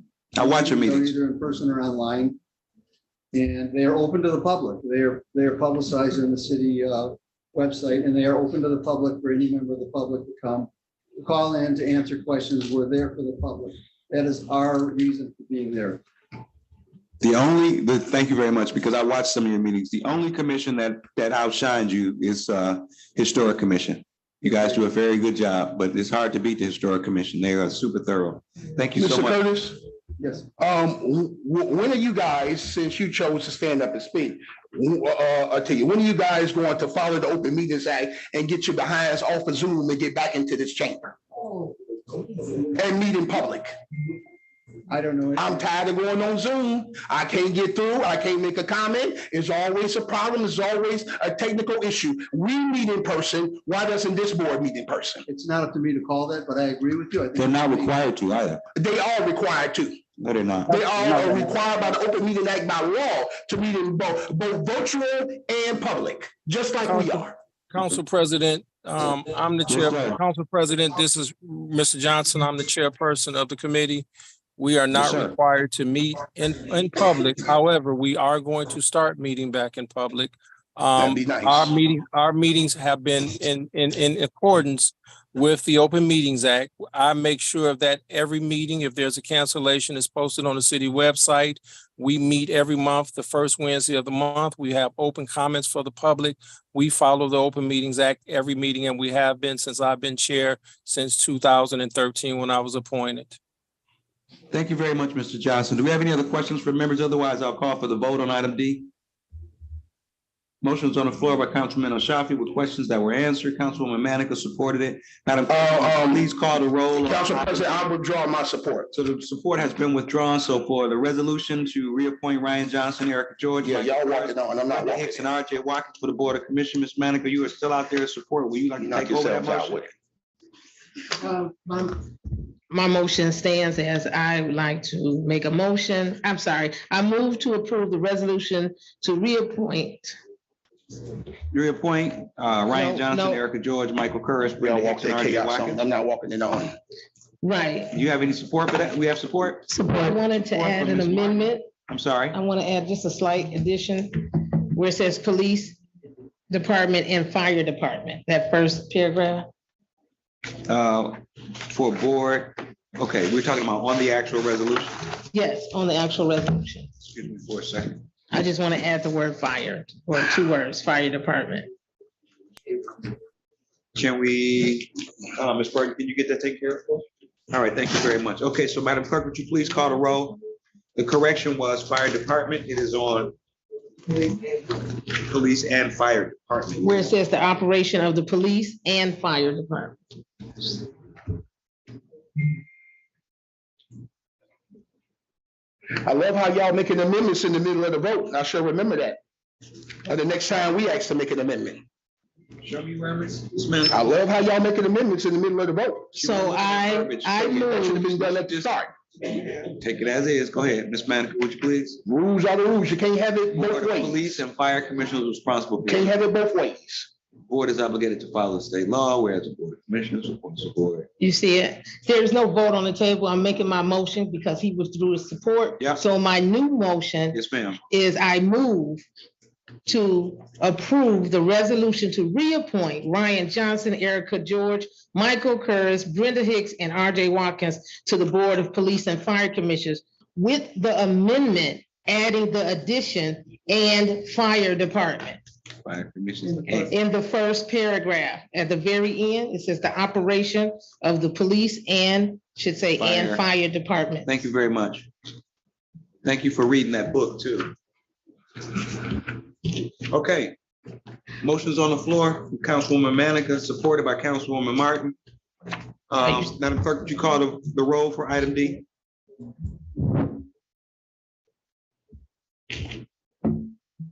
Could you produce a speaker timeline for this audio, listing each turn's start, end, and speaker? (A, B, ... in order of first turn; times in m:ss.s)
0:00.3-0:01.1 A
0:00.4-0:02.4 B
0:03.3-0:16.0 B
0:17.2-0:29.4 A
0:29.0-0:29.8 C
0:30.2-0:30.5 B
0:30.6-0:41.1 C
0:42.6-0:43.7 C
0:44.9-0:45.7 B
0:45.4-0:55.2 C
0:55.3-0:58.0 B
0:57.4-0:58.6 A
0:58.8-1:00.0 C
1:00.2-1:01.5 A
1:00.7-1:07.4 C
1:06.9-1:43.4 D
1:09.7-1:10.2 A
1:14.9-1:15.3 A
1:21.0-1:21.7 C
1:44.5-1:48.9 A
1:50.6-1:57.8 A
1:55.5-1:56.3 C
1:57.0-1:58.9 C
1:58.9-2:09.9 A
2:03.6-2:05.3 C
2:08.8-2:09.9 C
2:11.2-2:11.9 E
2:12.7-2:20.1 E
2:21.5-2:25.8 A
2:22.7-2:23.4 E
2:24.6-2:26.8 C
2:27.4-2:27.9 E
2:27.9-2:29.7 A
2:29.7-2:31.7 E
2:30.4-2:32.4 A
2:32.3-2:35.8 E
2:36.5-2:39.5 E
2:40.7-2:45.0 A
2:45.3-2:46.9 E
2:47.0-2:48.0 A
2:48.3-2:51.7 E
2:53.9-3:00.4 A
3:00.9-3:03.3 A
3:05.1-3:07.1 A
3:06.8-3:10.0 E
3:16.0-3:19.2 C
3:20.1-3:21.8 C
3:22.6-3:24.1 A
3:23.9-3:26.1 C
3:26.1-3:32.0 A
3:26.2-3:28.1 E
3:27.4-3:28.9 C
3:32.0-3:34.3 C
3:33.5-3:36.1 A
3:35.8-3:37.1 C
3:37.5-3:41.1 A
3:41.2-3:49.0 E
3:47.3-3:47.8 A
3:49.8-4:05.4 E
4:05.8-4:06.9 A
4:06.7-4:14.3 E
4:13.0-4:13.4 A
4:14.2-4:15.1 A
4:16.2-4:17.7 A
4:20.0-4:20.6 A
4:21.4-4:25.1 A
4:26.1-4:28.8 A